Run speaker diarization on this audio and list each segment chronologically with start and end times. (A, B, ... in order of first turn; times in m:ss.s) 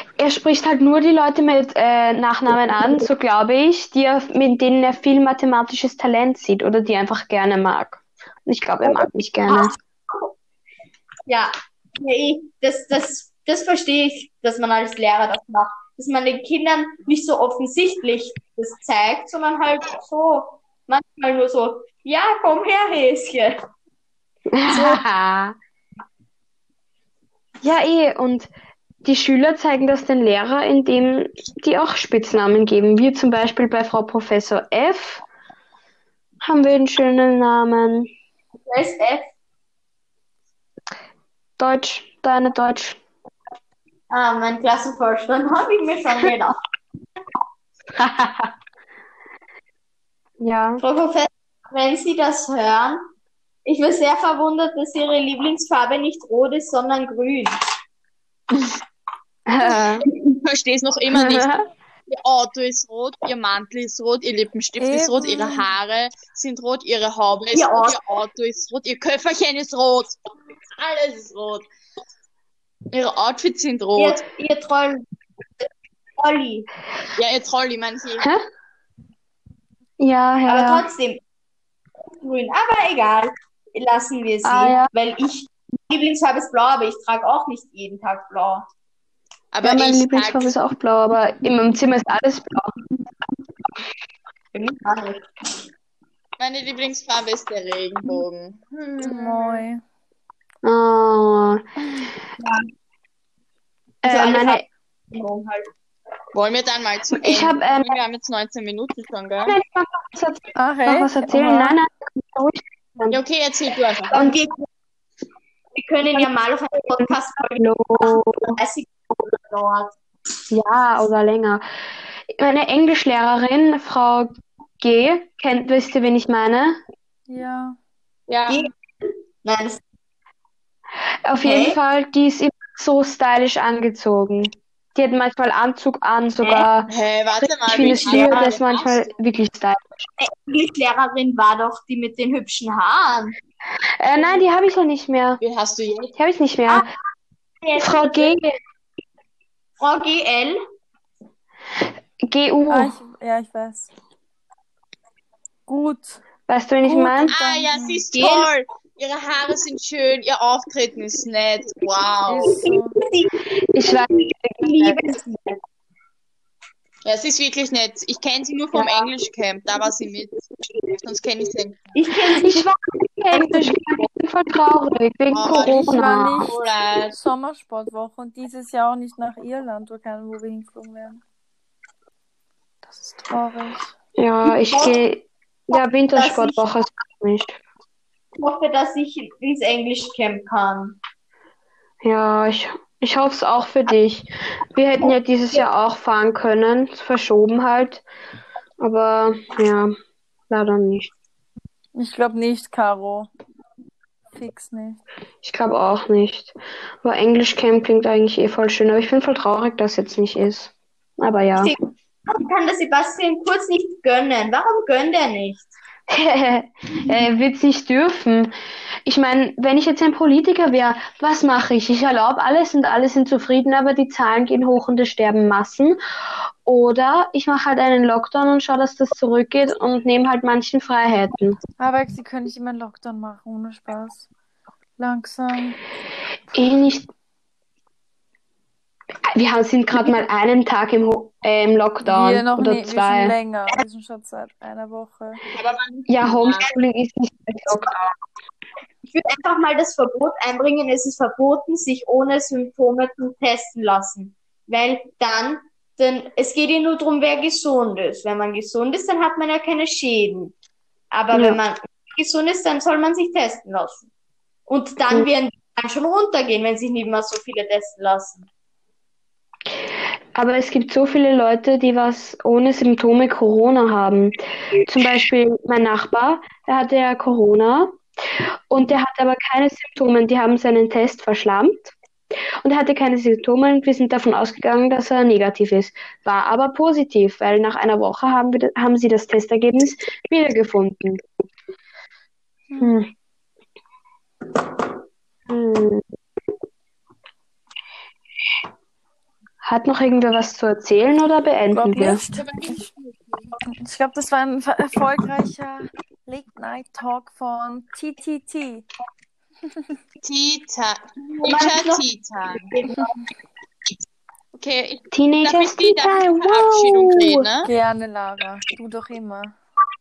0:00.2-0:09.8 A
0:08.8-0:10.3 B
0:11.3-0:23.6 B
0:24.5-0:25.6 A
0:24.7-0:25.0 B
0:27.6-0:28.5 A
0:29.0-0:35.2 A
0:36.4-0:38.1 A
0:38.6-0:39.3 B
0:41.6-0:43.0 A
0:44.1-0:46.6 B
0:48.0-0:48.5 A
0:50.4-0:50.8 A
0:50.8-0:53.0 B
0:53.7-0:57.6 B
0:59.5-1:00.1 A
1:00.0-1:10.2 C
1:01.1-1:01.7 A
1:04.8-1:05.7 D
1:07.5-1:08.0 B
1:10.8-1:11.7 C
1:12.9-1:14.2 C
1:14.0-1:15.0 B
1:15.6-1:16.7 B
1:17.2-1:18.3 C
1:20.0-1:20.9 A
1:20.5-1:21.2 B
1:22.2-1:28.6 B
1:24.4-1:24.9 A
1:29.5-1:30.5 C
1:29.6-1:32.7 A
1:34.5-1:35.3 B
1:36.4-1:39.6 C
1:39.0-1:39.8 D
1:40.6-1:41.6 A
1:42.4-1:42.7 B
1:44.0-1:44.6 A
1:44.0-1:45.7 B
1:46.3-1:49.6 C
1:47.2-1:47.9 A
1:49.4-1:53.2 A
1:50.6-1:51.8 D
1:53.1-1:54.3 C
1:54.1-1:54.7 B
1:55.8-2:00.0 B
1:56.9-1:58.6 A
2:00.5-2:01.6 A
2:02.3-2:06.8 A
2:07.3-2:07.8 D
2:08.3-2:08.7 C
2:08.5-2:09.8 B
2:11.3-2:16.9 A
2:11.4-2:11.8 B
2:16.9-2:19.1 C
2:17.6-2:20.1 A
2:17.7-2:18.6 B
2:20.2-2:23.4 B
2:24.0-2:25.4 A
2:25.4-2:26.2 C
2:26.2-2:26.9 A
2:26.7-2:27.0 B
2:27.6-2:28.4 B
2:27.8-2:28.5 A
2:29.8-2:30.6 B
2:32.2-2:33.0 A
2:32.7-2:33.9 D
2:35.7-2:36.2 D
2:36.5-2:37.3 A
2:36.8-2:38.0 D
2:37.3-2:42.6 C
2:38.1-2:38.5 B
2:42.3-2:43.0 D
2:42.5-2:45.6 B
2:43.7-2:45.0 A
2:47.0-2:50.5 C
2:48.8-2:49.0 B
2:51.0-2:51.9 C
2:52.0-2:52.7 B
2:52.3-2:56.5 A
2:53.3-2:54.1 B
2:55.3-2:57.2 C
2:55.6-2:56.6 D
2:57.1-3:01.2 D
3:02.8-3:03.9 D
3:04.2-3:07.6 A
3:04.4-3:05.0 B
3:06.1-3:06.6 B
3:08.4-3:11.0 B
3:12.0-3:18.0 A
3:18.8-3:19.9 A
3:20.5-3:21.1 A
3:22.0-3:23.3 D
3:24.3-3:25.0 D
3:25.4-3:31.7 A
3:31.6-3:35.7 B
3:36.1-3:38.5 A
3:39.1-3:46.0 A
3:46.6-3:51.6 A
3:51.8-3:54.3 D
3:55.0-3:55.8 D
3:56.5-3:57.1 A
3:59.3-4:03.4 A
4:02.0-4:05.4 D
4:05.5-4:06.7 C
4:06.1-4:08.1 A
4:09.1-4:20.6 B
4:21.1-4:24.1 B
4:21.3-4:21.6 A
4:24.7-4:28.5 B
4:30.4-4:42.0 A
4:42.6-4:51.2 A
4:52.7-4:53.0 D
4:52.8-4:53.1 A
4:55.5-4:56.0 A
4:59.6-5:02.2 A
5:01.7-5:02.7 D
5:02.0-5:03.4 C
5:03.6-5:08.9 D
5:10.2-5:12.7 C
5:11.4-5:12.0 B
5:12.6-5:13.2 B
5:14.5-5:17.7 C
5:15.1-5:17.5 A
5:17.6-5:19.6 D